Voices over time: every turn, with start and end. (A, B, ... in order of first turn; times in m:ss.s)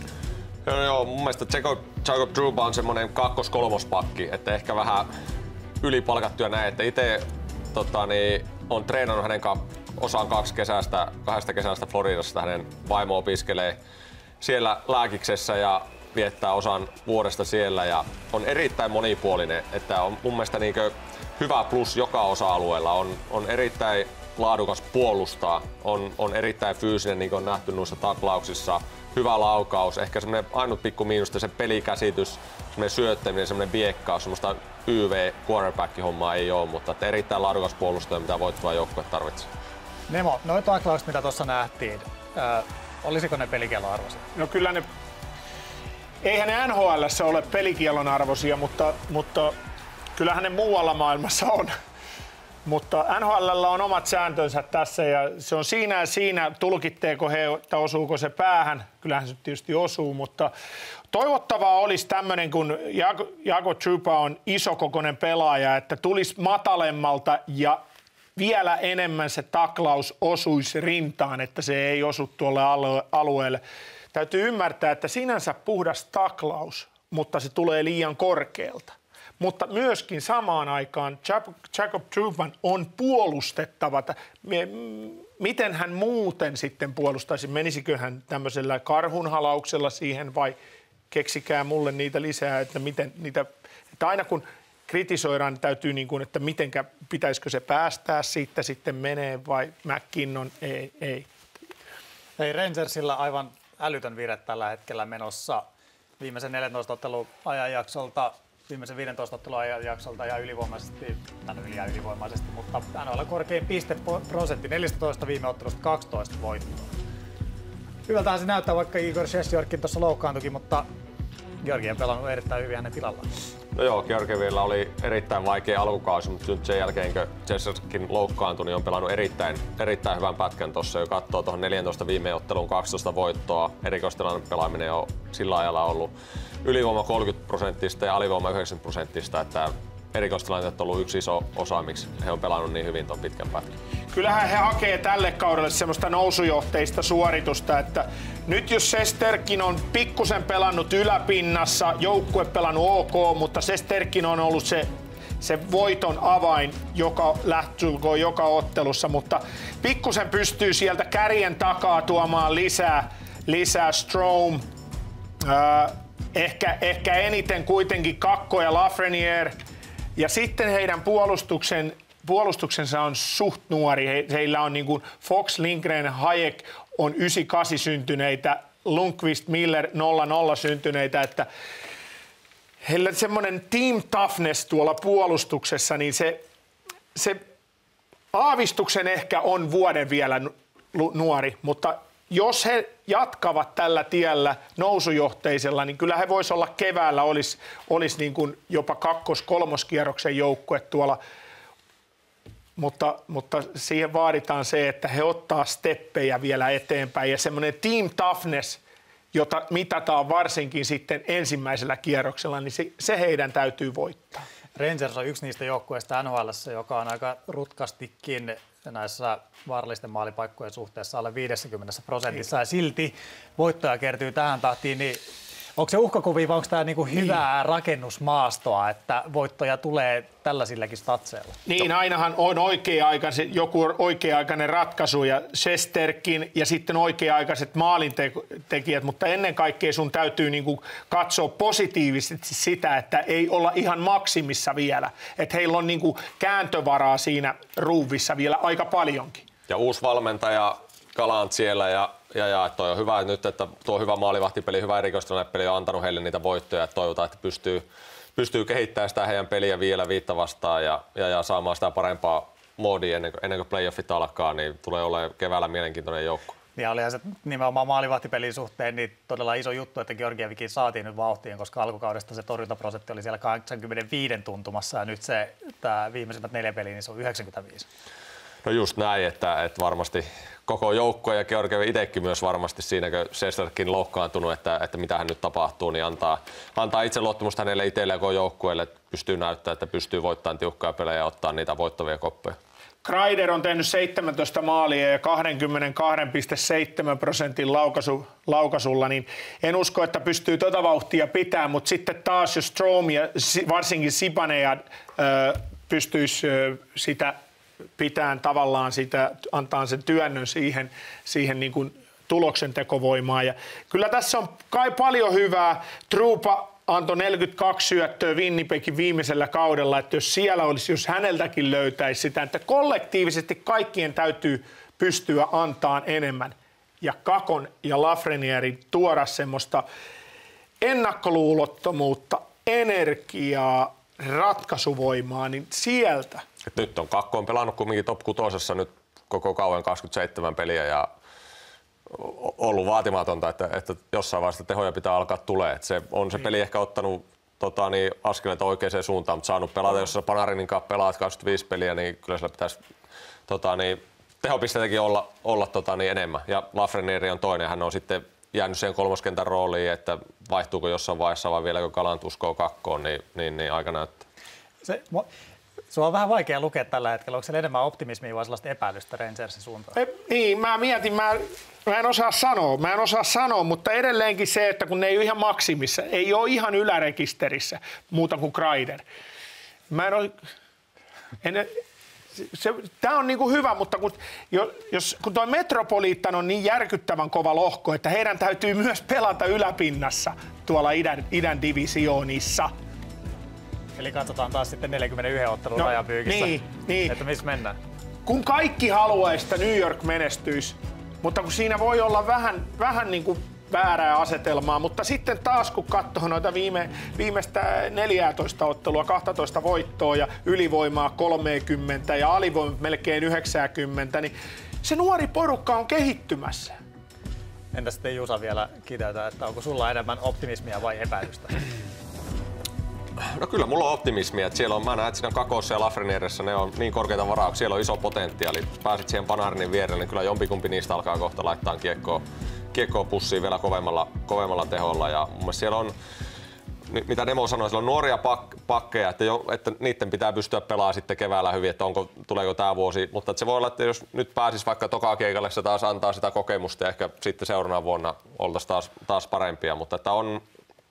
0:00.6-0:05.1 A
0:05.8-0:13.8 A
0:14.4-0:39.5 A
0:40.1-0:44.3 B
0:44.3-0:44.8 C
0:46.2-0:49.5 C
0:50.1-0:51.7 C
0:52.6-1:00.5 C
1:01.1-1:07.8 C
1:08.4-1:13.6 C
1:14.1-1:30.6 C
1:31.1-1:41.3 C
1:42.4-1:45.6 B
1:46.2-1:56.9 B
1:58.1-2:00.8 B
2:01.6-2:03.3 B
2:03.7-2:16.1 A
2:16.6-2:23.7 A
2:24.1-2:34.9 C
2:35.4-2:44.6 C
2:45.4-2:49.5 C
2:50.2-3:01.4 C
3:02.8-3:06.4 C
3:07.1-3:07.4 C
3:08.3-3:21.2 C
3:22.8-3:28.8 C
3:29.3-3:34.4 C
3:34.8-3:45.2 B
3:45.8-3:51.6 B
3:51.6-4:09.4 C
4:09.7-4:17.8 A
4:18.4-4:26.5 A
4:26.8-4:37.8 B
4:38.6-4:52.6 A
4:53.0-5:07.3 C
5:08.0-5:29.8 C
5:30.8-5:36.4 C
5:36.7-5:41.1 A
5:42.1-5:52.8 A
5:53.5-6:04.2 A
6:04.8-6:05.3 B
6:05.9-6:10.0 B
6:10.0-6:19.0 C
6:19.9-6:20.3 C
6:21.4-6:21.7 C
6:22.4-6:32.7 C
6:34.0-6:37.8 B
6:35.8-6:37.1 C
6:38.2-6:56.7 C
6:57.7-7:01.6 B
7:03.2-7:15.9 A
7:16.9-7:30.4 A